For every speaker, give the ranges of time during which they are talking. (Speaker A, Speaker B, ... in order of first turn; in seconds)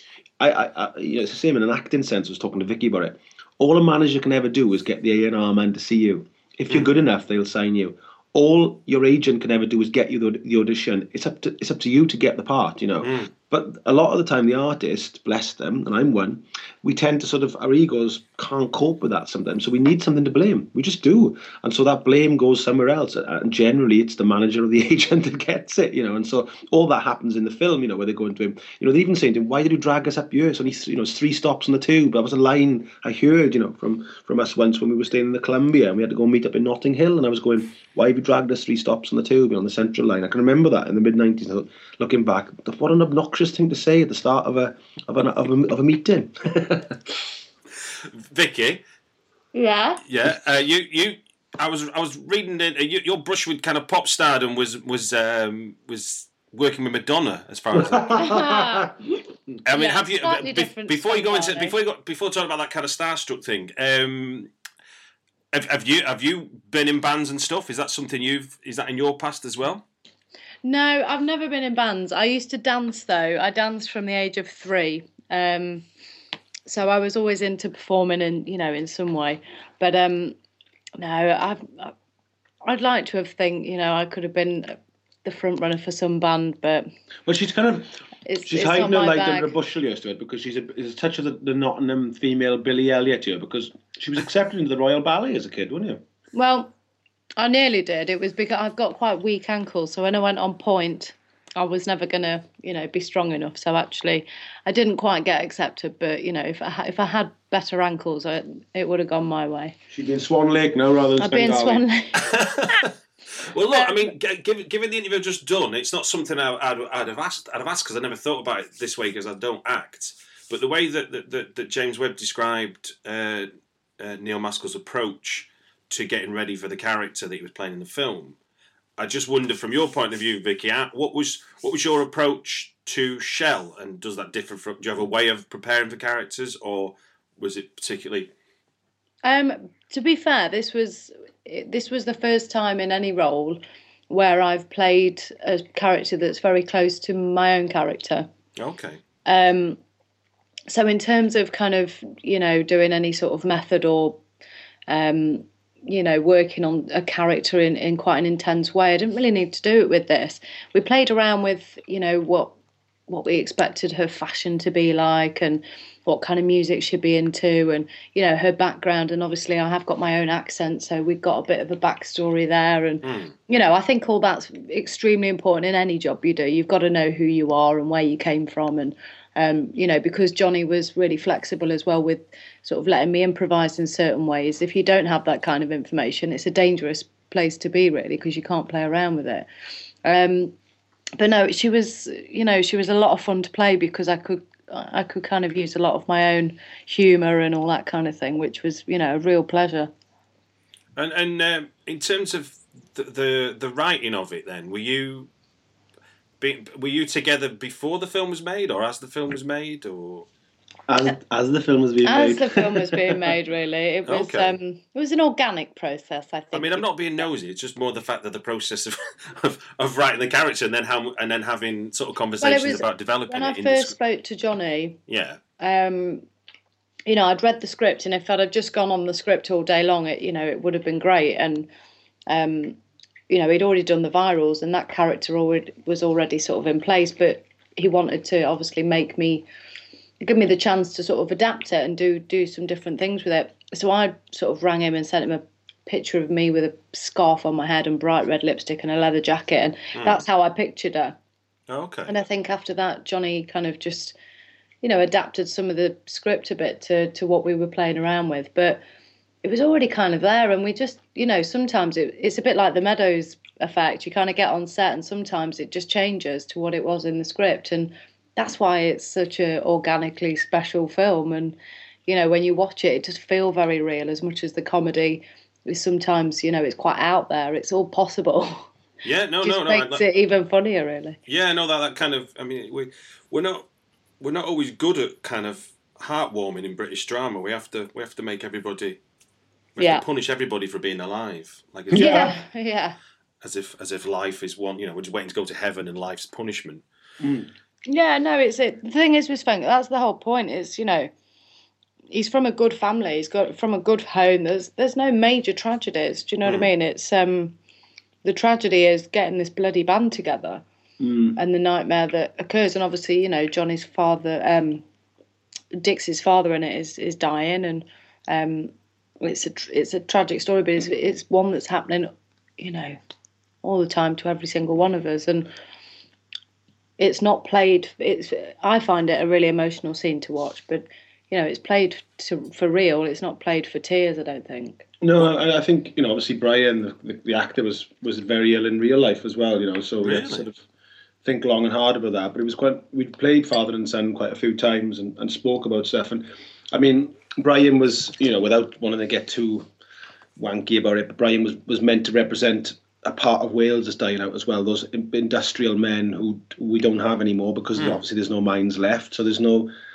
Speaker A: 0.4-47.2, 57.7-59.0, 87.3-87.9, 88.5-96.0, 109.9-111.8, 210.9-213.3, 291.9-292.3, 297.2-297.5, 311.0-311.4, 335.0-340.6, 341.2-349.7, 350.4-359.7
Speaker B: 13.0-13.3, 48.1-48.8, 50.0-58.2, 59.6-64.5, 65.5-69.8, 112.2-112.9, 113.5-128.4, 129.0-138.3, 148.6-149.0, 173.0-173.3, 201.0-205.3, 206.4-210.3, 214.1-214.6, 216.5-223.9, 225.1-225.4, 249.9-250.2, 251.7-252.2, 279.0-280.1, 281.3-283.7, 284.2-289.0, 289.8-292.3, 293.4-296.8, 306.4-306.7, 340.0-340.5, 357.8-358.0
Speaker C: 49.5-50.0, 58.1-58.9, 59.7-61.8, 70.6-75.9, 76.7-80.4, 81.0-81.9, 82.7-86.9, 88.3-89.5, 96.3-96.7, 97.4-109.8, 111.2-112.2, 113.7-114.0, 139.2-148.3, 149.3-149.8, 150.7-154.2, 154.9-162.5, 163.1-189.5, 190.1-190.5, 191.2-199.9, 212.1-216.9, 222.4-225.0, 225.6-226.2, 227.1-231.7, 232.3-232.8, 233.3-239.5, 240.2-251.2, 252.1-254.2, 254.8-258.8, 259.4-271.6, 272.1-278.7, 279.4-281.2, 289.8-290.0, 291.9-293.0, 297.9-301.1, 302.1-307.6, 308.2-310.6, 311.4-314.8, 315.8-323.0, 323.6-325.5, 327.0-334.9